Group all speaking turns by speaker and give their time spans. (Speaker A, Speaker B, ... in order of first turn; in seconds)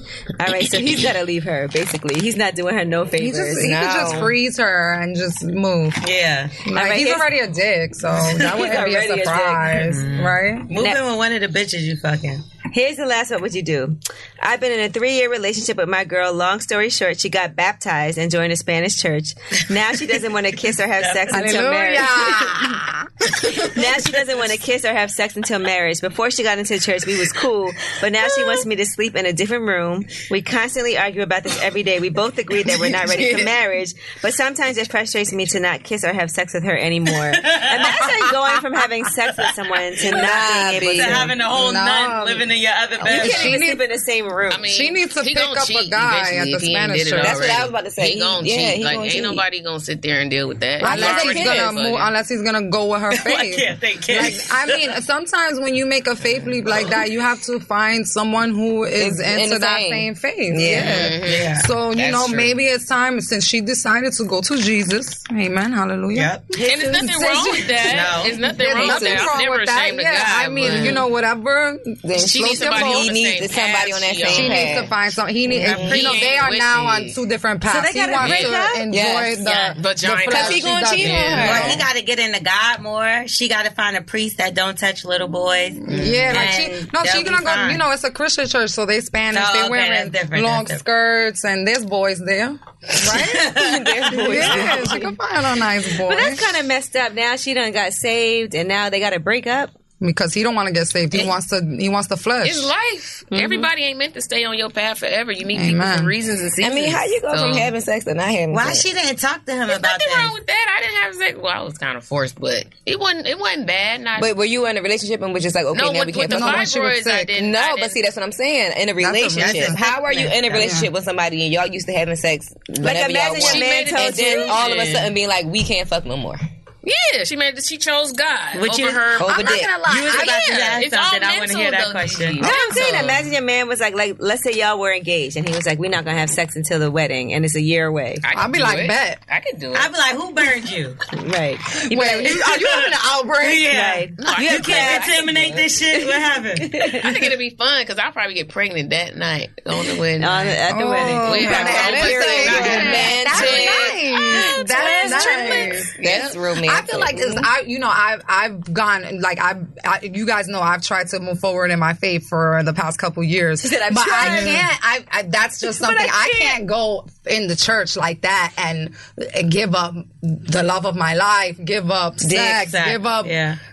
Speaker A: 0.4-3.7, 6.7-7.3, 8.4-9.9, 12.7-22.8, 23.6-41.3, 43.0-44.7, 77.7-78.8, 94.4-95.0, 96.0-99.7, 103.3-103.7, 122.8-124.6, 132.4-138.2, 141.1-142.4, 143.7-145.1, 146.1-147.1, 150.2-153.5, 154.3-155.7, 163.6-164.7, 165.7-166.6
Speaker B: 3.2-6.0, 6.6-10.7, 21.3-23.7, 41.5-42.5, 43.1-43.8, 44.7-47.5, 50.8-73.2, 74.2-81.8, 85.8-93.5, 94.1-96.5, 100.0-102.7, 105.5-106.1, 116.3-117.4, 119.0-120.0, 120.5-120.9, 129.3-130.5, 138.3-139.2, 141.9-143.7, 150.7-156.0, 156.6-173.4
Speaker C: 3.6-4.3, 40.1-41.3, 47.2-49.4, 50.8-51.8, 59.0-61.1, 68.8-69.4, 70.7-71.0, 72.0-74.9, 75.6-75.9, 78.9-79.5, 80.3-81.8, 93.5-95.1, 106.6-108.9, 114.2-116.7, 117.4-126.4, 129.2-129.9, 151.4-157.5, 164.0-164.7
Speaker D: 6.0-6.6, 8.2-8.5, 9.8-12.4, 21.0-21.6, 37.3-38.0, 41.0-43.6, 53.1-54.9, 61.2-61.7, 66.1-66.5, 67.9-68.4, 75.6-76.2, 81.4-87.8, 89.3-90.8, 93.0-95.0, 108.5-110.3, 119.4-120.7, 128.6-132.4, 139.7-141.0, 142.2-146.8, 172.3-173.6
Speaker E: 44.5-52.1, 60.8-62.5, 66.6-71.1, 72.2-74.9, 75.6-77.2, 78.2-78.6, 79.4-81.8, 85.9-86.4, 102.4-107.7, 109.7-114.3, 115.7-118.0, 123.4-125.1, 126.8-133.3, 138.2-139.9, 144.2-145.7, 146.8-156.4